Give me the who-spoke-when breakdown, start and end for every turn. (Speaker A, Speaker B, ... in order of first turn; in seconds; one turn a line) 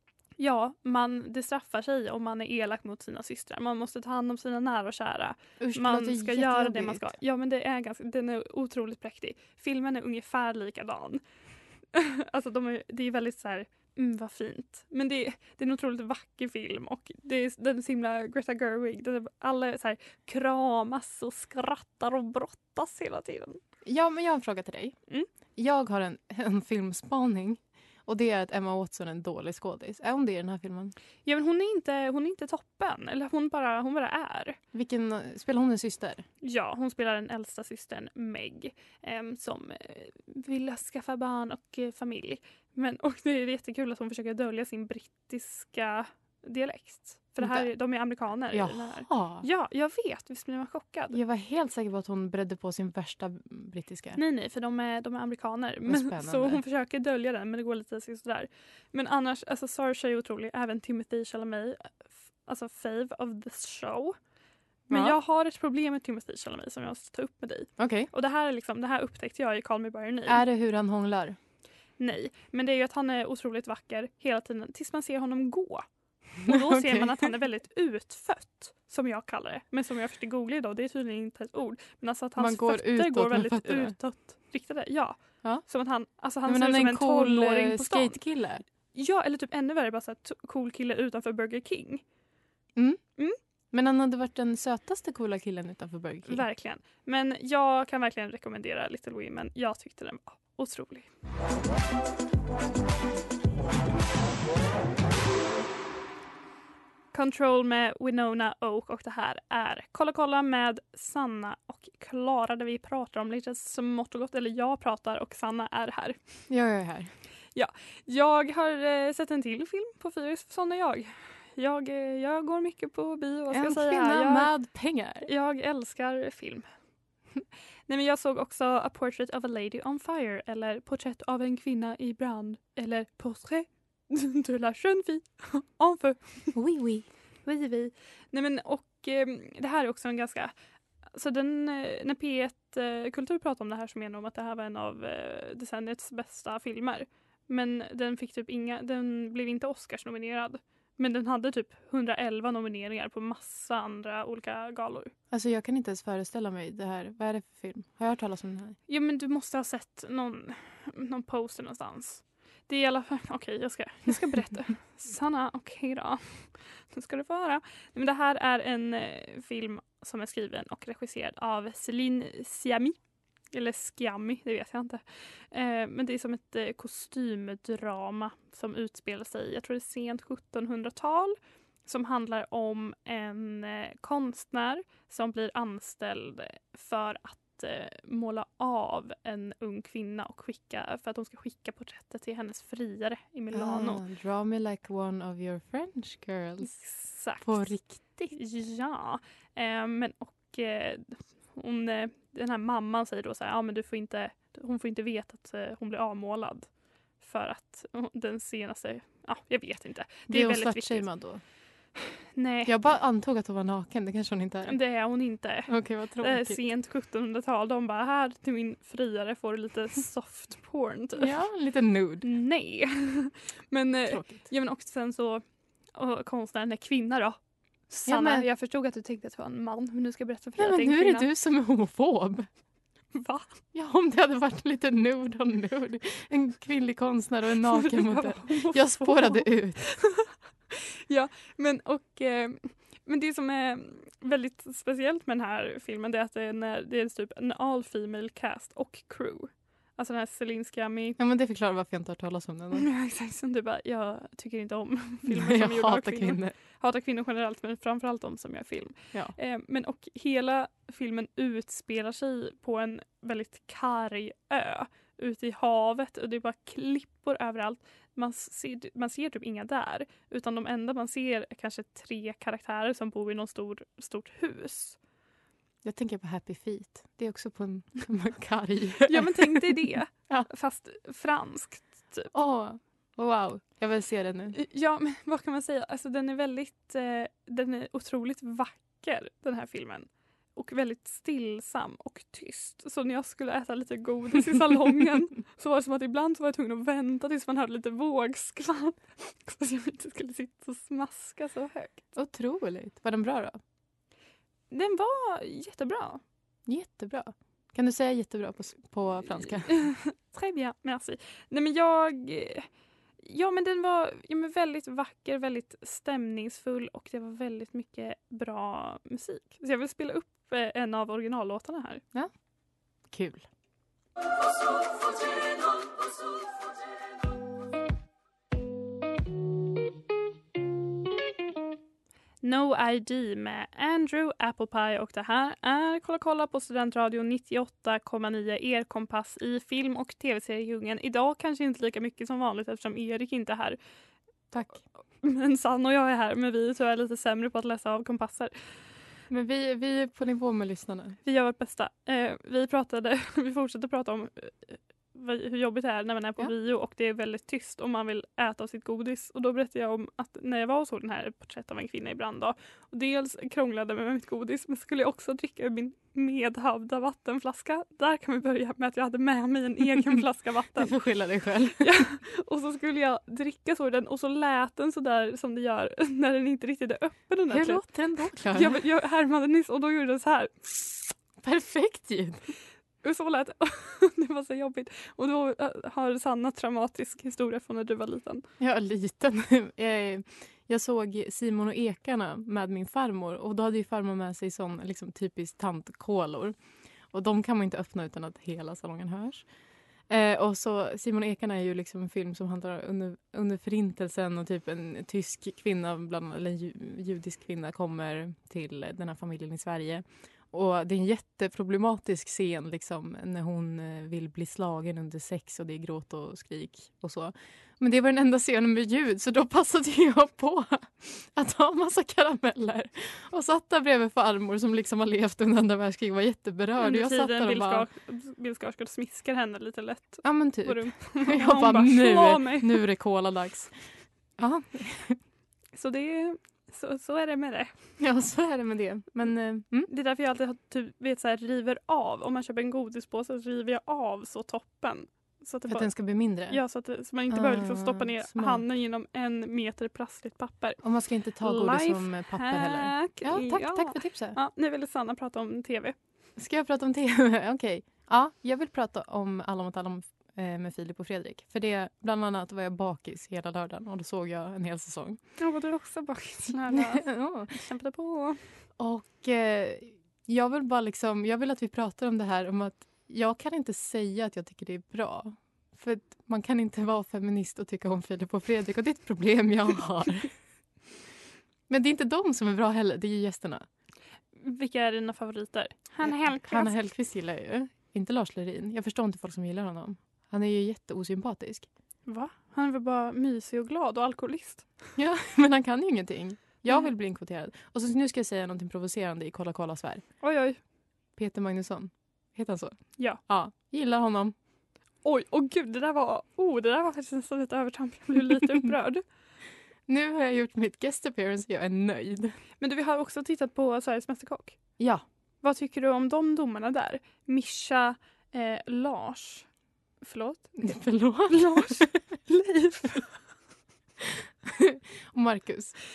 Speaker A: 0.4-11.2
Speaker B: 5.6-7.1
Speaker A: 11.9-23.6
Speaker B: 23.9-25.0
Speaker B: 25.6-30.9
Speaker A: 31.2-34.6
Speaker B: 34.7-36.2
Speaker A: 36.4-51.2
Speaker B: 47.4-47.7
Speaker B: 48.5-49.5
Speaker B: 51.1-54.2
Speaker A: 54.2-64.2
Speaker B: 55.9-56.6
Speaker B: 64.9-65.2
Speaker A: 64.9-70.4
Speaker B: 67.8-68.1
Speaker B: 70.3-71.4
Speaker A: 72.0-75.8
Speaker B: 76.4-77.3
Speaker A: 76.4-88.2
Speaker B: 82.4-84.0
Speaker B: 86.5-88.6
Speaker A: 88.9-92.0
Speaker B: 93.7-96.4
Speaker A: 96.3-101.1
Speaker A: 107.1-116.2
Speaker B: 116.5-117.1
Speaker A: 117.5-124.5
Speaker B: 123.5-125.3
Speaker A: 125.2-126.7
Speaker A: 127.9-136.5
Speaker B: 136.6-137.1
Speaker A: 137.5-140.5
Speaker A: 141.1-155.1
Speaker B: 155.3-158.8
Speaker A: 158.9-173.0
Speaker A: 173.5-181.4
Speaker A: 181.9-194.0
Speaker B: 193.5-196.7
Speaker A: 196.6-197.7
Speaker B: 197.4-198.3
Speaker A: 198.3-206.7
Speaker A: 207.2-211.1
Speaker B: 210.3-211.4
Speaker A: 212.4-212.7
Speaker B: 212.7-214.8
Speaker A: 214.7-221.3
Speaker B: 215.7-216.6
Speaker B: 221.2-222.3
Speaker A: 222.2-225.4
Speaker B: 224.1-224.5
Speaker A: 226.0-227.4
Speaker A: 227.9-231.3
Speaker B: 228.1-228.5
Speaker B: 230.6-232.5
Speaker A: 233.2-233.5
Speaker B: 233.7-239.8
Speaker A: 237.7-251.2
Speaker B: 251.2-252.9
Speaker A: 252.8-275.0
Speaker B: 255.3-256.6
Speaker B: 275.8-279.6
Speaker A: 279.0-282.3
Speaker B: 282.3-284.6
Speaker A: 284.5-302.0
Speaker B: 302.2-303.6
Speaker A: 304.7-306.2
Speaker B: 306.7-309.8
Speaker A: 309.7-312.7
Speaker A: 313.2-322.0
Speaker B: 323.1-323.4
Speaker A: 332.4-343.8
Speaker B: 344.5-344.8
Speaker A: 345.2-348.5
Speaker B: 349.3-351.2
Speaker A: 351.2-370.9
Speaker B: 369.9-370.2
Speaker B: 370.8-371.9
Speaker A: 371.8-377.8
Speaker B: 377.5-378.8
Speaker A: 378.5-380.5
Speaker B: 381.4-382.4
Speaker A: 383.0-388.4
Speaker B: 388.6-396.6
Speaker B: 397.1-399.4
Speaker B: 400.1-427.9
Speaker A: 426.8-432.8
Speaker B: 430.2-433.7
Speaker B: 434.4-435.2
Speaker A: 435.8-437.7
Speaker B: 438.0-439.9
Speaker A: 439.9-445.9
Speaker B: 445.7-446.6
Speaker A: 446.5-450.8
Speaker B: 447.3-448.6
Speaker B: 450.8-454.4
Speaker A: 451.4-455.9
Speaker B: 456.4-465.2
Speaker A: 465.4-468.4
Speaker B: 466.7-467.5
Speaker B: 468.8-480.3
Speaker B: 481.7-483.6
Speaker A: 484.4-486.7
Speaker B: 486.0-491.7
Speaker A: 492.1-494.7
Speaker B: 495.0-500.0
Speaker A: 500.2-500.6
Speaker B: 501.2-502.8
Speaker B: 503.3-504.3
Speaker A: 505.0-509.0
Speaker B: 509.9-512.4
Speaker A: 512.6-514.6
Speaker A: 515.4-519.5
Speaker A: 520.0-520.5
Speaker B: 520.6-522.0
Speaker A: 521.3-523.1
Speaker B: 524.0-525.8